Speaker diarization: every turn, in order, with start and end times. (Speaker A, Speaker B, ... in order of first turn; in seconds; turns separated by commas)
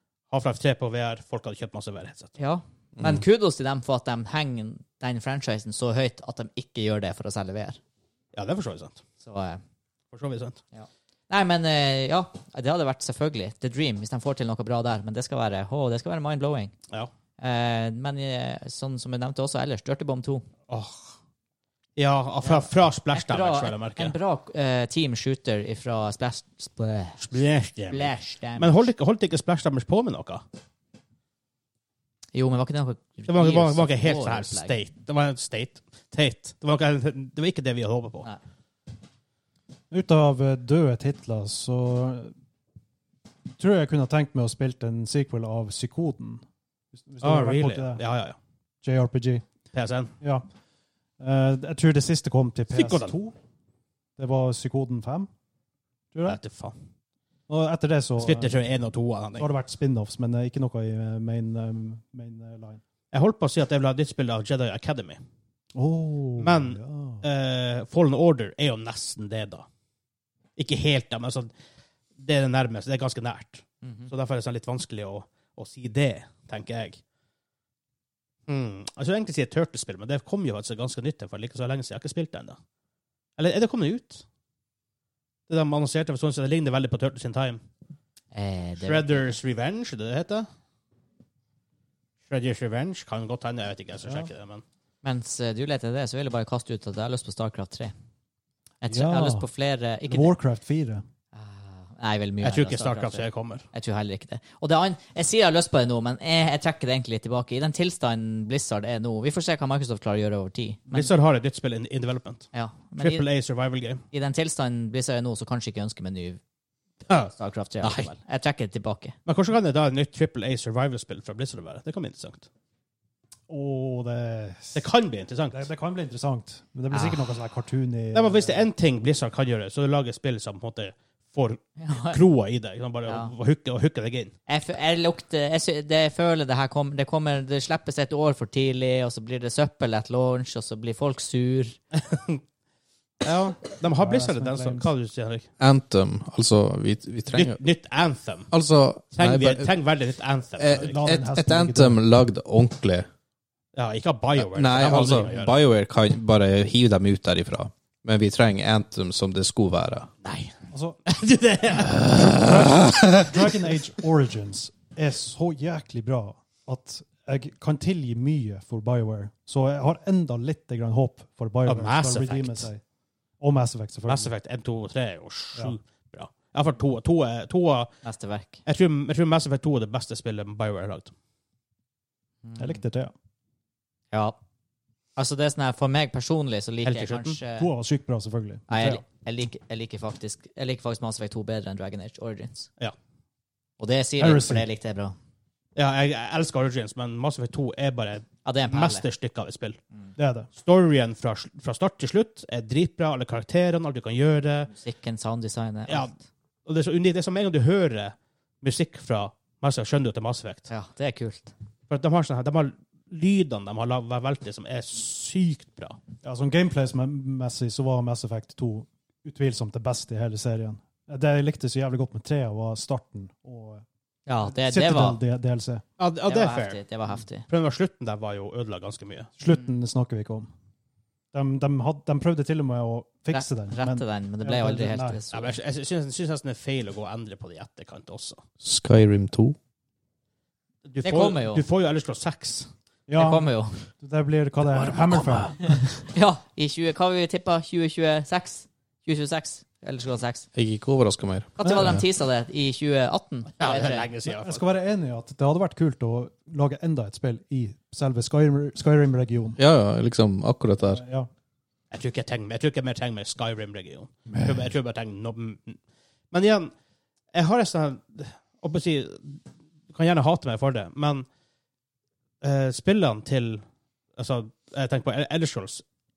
Speaker A: 0.3-2.3, Speaker B: 2.4-7.8, Speaker C: 3.0-3.2, Speaker A: 8.3-9.0, Speaker B: 9.2-9.6, Speaker A: 10.1-10.6, Speaker B: 10.7-16.7, Speaker B: 17.4-20.4, Speaker A: 20.7-21.1, Speaker A: 22.0-24.1, Speaker B: 22.4-27.3, Speaker A: 27.2-30.4, Speaker B: 27.9-28.8, Speaker B: 32.3-34.8, Speaker A: 33.3-38.3, Speaker D: 39.9-42.3, Speaker D: 43.6-48.0, Speaker A: 47.2-48.4, Speaker D: 48.8-49.4, Speaker A: 49.7-50.1, Speaker D: 50.2-50.5, Speaker D: 51.2-53.4, Speaker A: 52.7-53.1, Speaker D: 54.2-55.3, Speaker D: 56.1-56.4, Speaker A: 56.3-56.8, Speaker D: 57.5-58.5, Speaker A: 58.2-59.5, Speaker D: 59.4-62.8, Speaker A: 63.1-65.2, Speaker D: 65.8-67.2, Speaker A: 66.4-69.7, Speaker A: 70.6-71.5, Speaker A: 72.2-77.0, Speaker B: 73.8-74.1, Speaker A: 78.5-82.6, Speaker A: 83.4-84.2, Speaker A: 85.5-87.6, Speaker B: 88.3-89.4, Speaker A: 88.8-90.5, Speaker A: 92.3-94.6, Speaker D: 94.0-94.3, Speaker B: 95.0-97.9, Speaker B: 98.8-100.4, Speaker D: 98.9-99.5, Speaker D: 100.1-101.0, Speaker B: 101.3-111.1, Speaker A: 102.4-103.7, Speaker A: 110.9-114.0, Speaker B: 112.5-113.3, Speaker B: 114.1-116.4, Speaker A: 117.1-118.1, Speaker B: 117.3-119.2, Speaker A: 119.3-122.5, Speaker D: 123.5-124.9, Speaker A: 124.8-125.7, Speaker D: 125.5-128.7, Speaker B: 126.9-127.2, Speaker A: 128.1-134.3, Speaker B: 131.8-132.2, Speaker B: 133.1-133.3, Speaker B: 134.5-141.8, Speaker A: 141.9-142.4, Speaker A: 143.2-145.5, Speaker D: 144.0-144.9, Speaker C: 145.6-147.6, Speaker A: 147.3-148.5, Speaker C: 148.5-149.7, Speaker A: 149.1-151.0, Speaker C: 150.6-153.1, Speaker D: 150.7-152.0, Speaker A: 153.7-155.5, Speaker C: 154.4-160.1, Speaker A: 160.2-160.5, Speaker D: 160.7-161.0, Speaker A: 161.1-162.2, Speaker C: 162.0-163.2, Speaker D: 162.2-172.8, Speaker A: 171.7-172.7, Speaker D: 173.4-174.3, Speaker A: 174.1-177.9, Speaker B: 178.0-178.6, Speaker A: 178.7-181.1, Speaker B: 182.4-182.8, Speaker D: 182.6-183.1, Speaker B: 184.1-184.4, Speaker B: 185.2-187.7, Speaker A: 186.8-187.4, Speaker D: 187.6-189.0, Speaker B: 188.7-192.7, Speaker B: 193.8-195.2, Speaker D: 194.2-194.7, Speaker A: 195.8-199.8, Speaker B: 198.4-199.0, Speaker D: 200.2-200.5, Speaker A: 200.6-204.7, Speaker B: 204.7-206.1, Speaker A: 205.9-206.1, Speaker A: 206.7-210.7, Speaker B: 210.7-211.5, Speaker A: 211.9-216.0, Speaker D: 216.2-223.8, Speaker B: 224.3-225.2, Speaker D: 224.4-225.8, Speaker A: 226.0-226.8, Speaker B: 226.3-227.5, Speaker A: 227.5-229.3, Speaker D: 229.4-230.5, Speaker D: 231.3-235.2, Speaker B: 233.3-235.6, Speaker A: 235.3-238.4, Speaker C: 238.6-239.6, Speaker A: 240.8-242.7, Speaker B: 241.0-241.7, Speaker D: 243.1-245.8, Speaker B: 243.2-243.8, Speaker B: 245.9-250.5, Speaker C: 250.6-252.0, Speaker B: 251.6-254.1, Speaker D: 251.6-251.9, Speaker A: 253.6-254.6, Speaker D: 254.2-259.6, Speaker C: 259.6-261.0, Speaker D: 260.9-261.3, Speaker A: 261.9-265.8, Speaker D: 264.3-264.6, Speaker A: 266.3-266.7, Speaker A: 267.3-269.4, Speaker A: 269.9-271.3, Speaker A: 272.4-273.6, Speaker A: 274.2-275.8